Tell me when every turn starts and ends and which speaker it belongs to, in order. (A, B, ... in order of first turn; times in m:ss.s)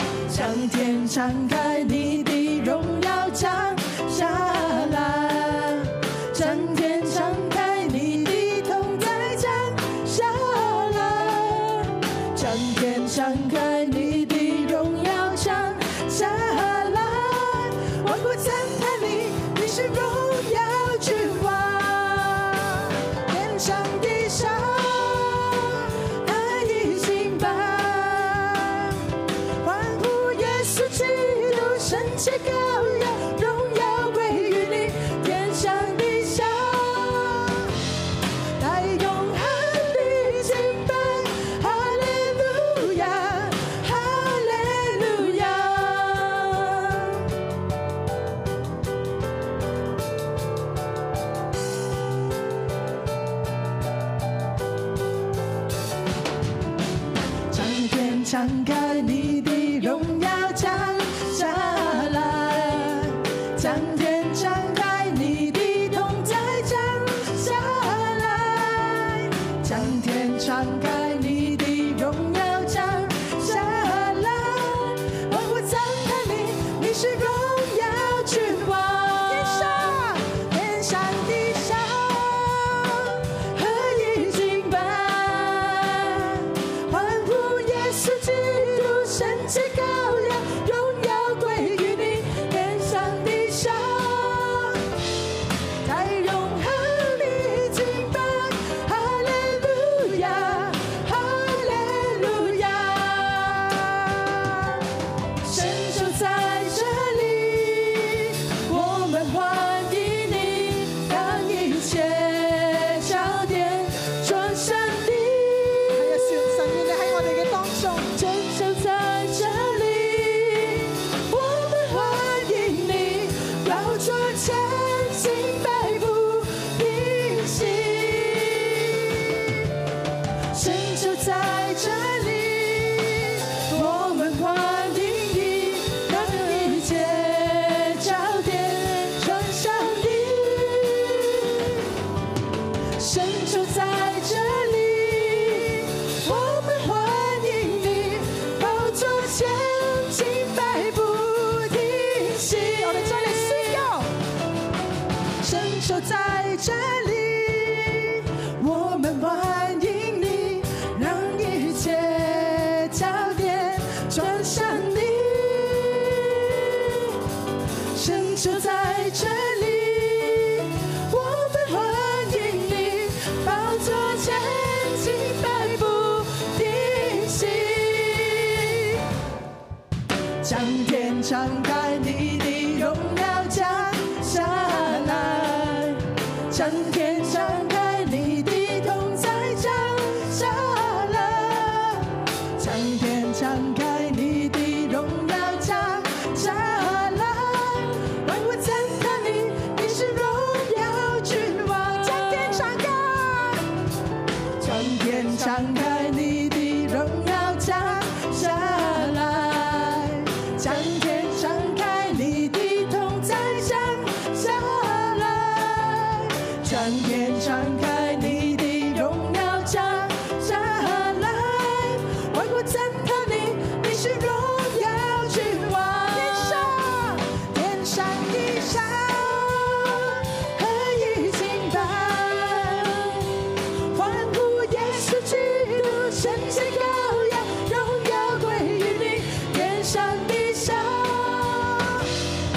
0:00.3-0:29.0 A
0:29.6-0:37.7 A
0:38.6-0:47.2 A
0:57.5-1:34.8 A
1:35.8-1:44.8 A
1:45.4-2:09.4 A
2:10.5-2:21.8 A
2:22.9-2:34.1 A
2:35.4-2:47.1 A
2:47.9-2:59.0 A
3:00.4-3:23.7 A
3:24.6-3:53.3 A
3:53.9-4:02.1 A